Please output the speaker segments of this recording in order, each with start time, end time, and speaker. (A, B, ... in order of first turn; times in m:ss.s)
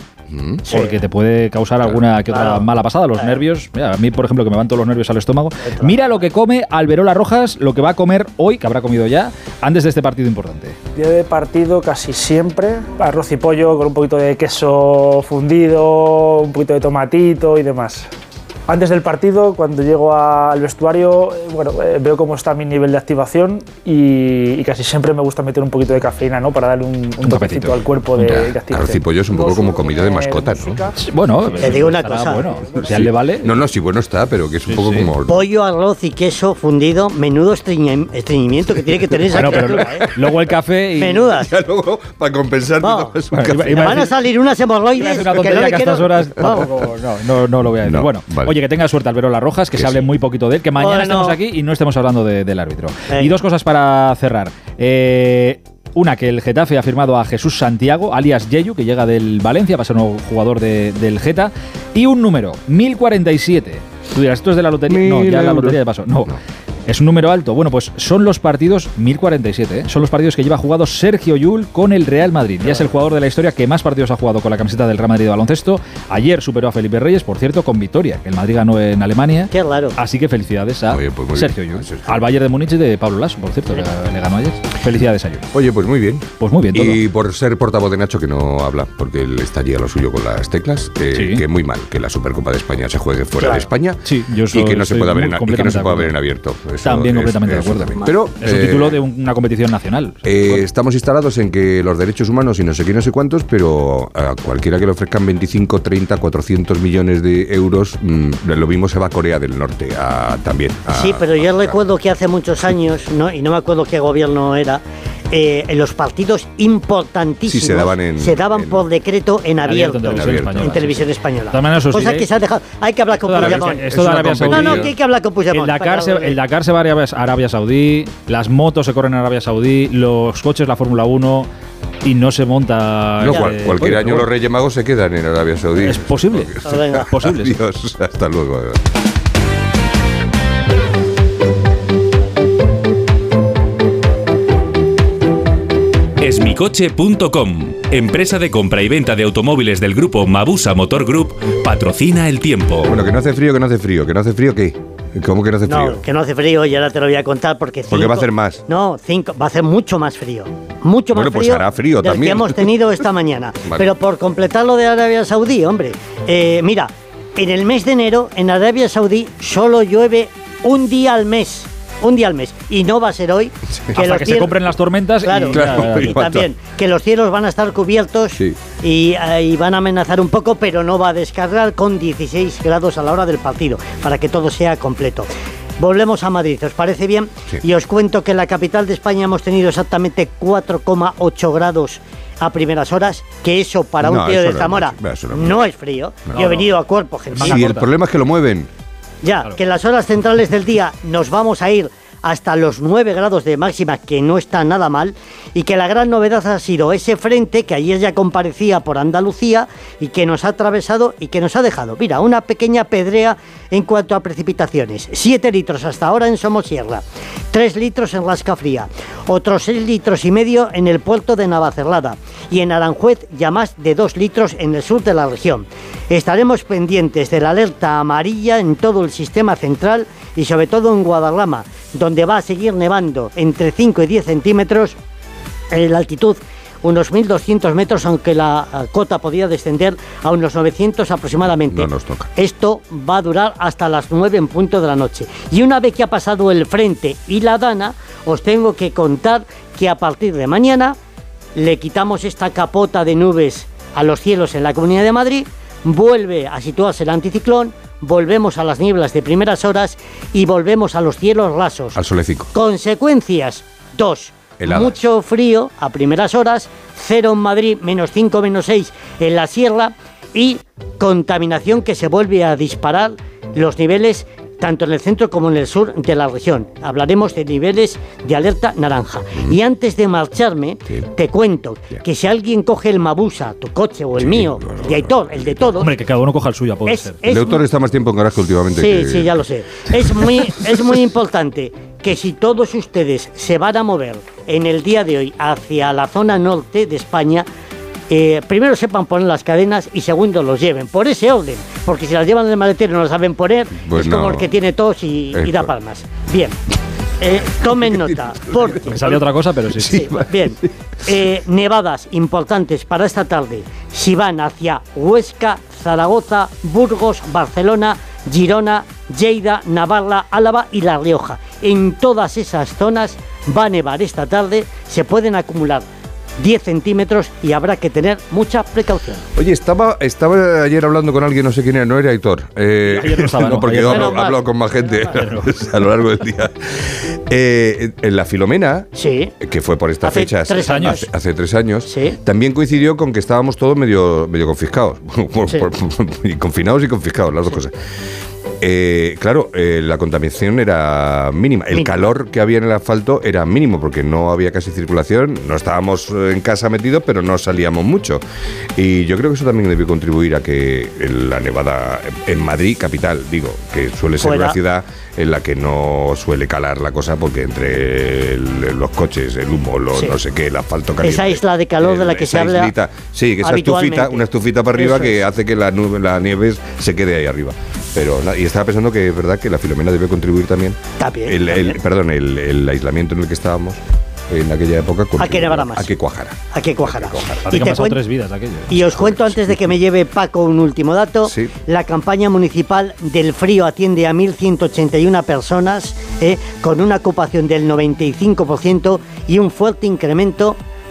0:00.3-0:00.6 A
0:00.7-0:10.8 B
0:02.3-0:02.6 C
0:05.7-0:06.0 C
0:11.0-0:18.1 D
0:18.7-0:33.1 D
0:27.2-0:27.8 B
0:28.2-0:30.8 A
0:31.0-0:33.5 B
0:31.7-0:32.4 C
0:32.8-0:35.4 A
0:34.7-0:35.1 B
0:35.3-0:40.1 C
0:39.3-0:40.1 A
0:39.3-0:41.3 B
0:41.0-0:41.5 C
0:41.4-0:44.1 A
0:42.8-0:43.1 C
0:43.3-0:44.1 B
0:43.7-0:46.7 C
0:45.0-1:06.3 B
0:47.8-0:48.6 A
0:49.8-0:50.0 A
0:50.8-0:51.4 C
1:04.9-1:06.4 A
1:06.9-1:25.4 B
1:19.5-1:19.9 C
1:20.9-1:22.2 A
1:25.5-1:39.0 A
1:26.4-1:27.0 B
1:31.1-1:31.4 B
1:33.4-1:36.2 B
1:36.8-1:40.6 B
1:40.2-1:51.8 A
1:50.9-2:03.8 C
1:57.5-1:58.9 A
1:59.6-2:02.3 B
1:59.9-2:00.8 A
2:03.3-2:04.9 B
2:03.3-2:05.0 A
2:04.5-2:06.4 C
2:05.5-2:11.5 B
2:12.0-2:14.3 B
2:13.2-2:18.8 A
2:15.8-2:17.6 B
2:26.2-2:33.0 E
2:32.9-2:36.0 A
2:35.6-2:54.6 C
2:37.9-2:38.6 A
2:41.1-2:43.0 A
2:43.6-2:43.9 A
2:54.0-2:56.2 B
2:55.2-3:05.3 C
2:55.5-2:56.5 A
3:05.8-3:17.7 C
3:14.0-3:15.7 A
3:16.3-3:16.7 A
3:17.4-3:17.9 B
3:17.4-3:18.7 A
3:19.2-3:55.0 C
3:55.7-4:11.0 C
4:01.6-4:02.3 A
4:11.6-4:22.0 C
4:21.9-4:22.5 A
4:22.6-4:45.9 C
4:24.6-4:25.0 A
4:44.2-4:45.8 A
4:45.8-4:47.2 B
4:46.9-4:47.6 C
4:47.3-4:49.4 A
4:48.8-4:57.5 C
4:49.9-4:51.0 A
4:58.1-5:06.6 C
5:03.7-5:04.6 A
5:05.3-5:05.7 A
5:07.2-5:08.9 C
5:07.6-5:09.2 A
5:08.8-5:10.1 B
5:09.8-5:10.5 A
5:09.9-5:25.9 C
5:26.4-5:29.2 C
5:29.4-5:38.9 A
5:32.8-5:34.3 B
5:33.8-5:35.1 C
5:35.1-5:35.5 B
5:39.0-5:39.3 C
5:39.4-5:47.7 A
5:40.0-5:41.0 C
5:40.6-5:41.0 B
5:41.9-5:42.2 C
5:48.6-5:58.2 A
5:51.7-5:52.1 C
5:58.8-6:27.8 A
6:04.2-6:04.6 C
6:11.0-6:12.7 C
6:13.4-6:14.2 C
6:14.8-6:15.1 C
6:21.0-6:21.8 C
6:25.2-6:25.9 C
6:26.5-6:28.0 C
6:27.5-6:29.2 B
6:28.7-6:40.6 C
6:28.9-6:29.7 A
6:31.2-6:31.5 A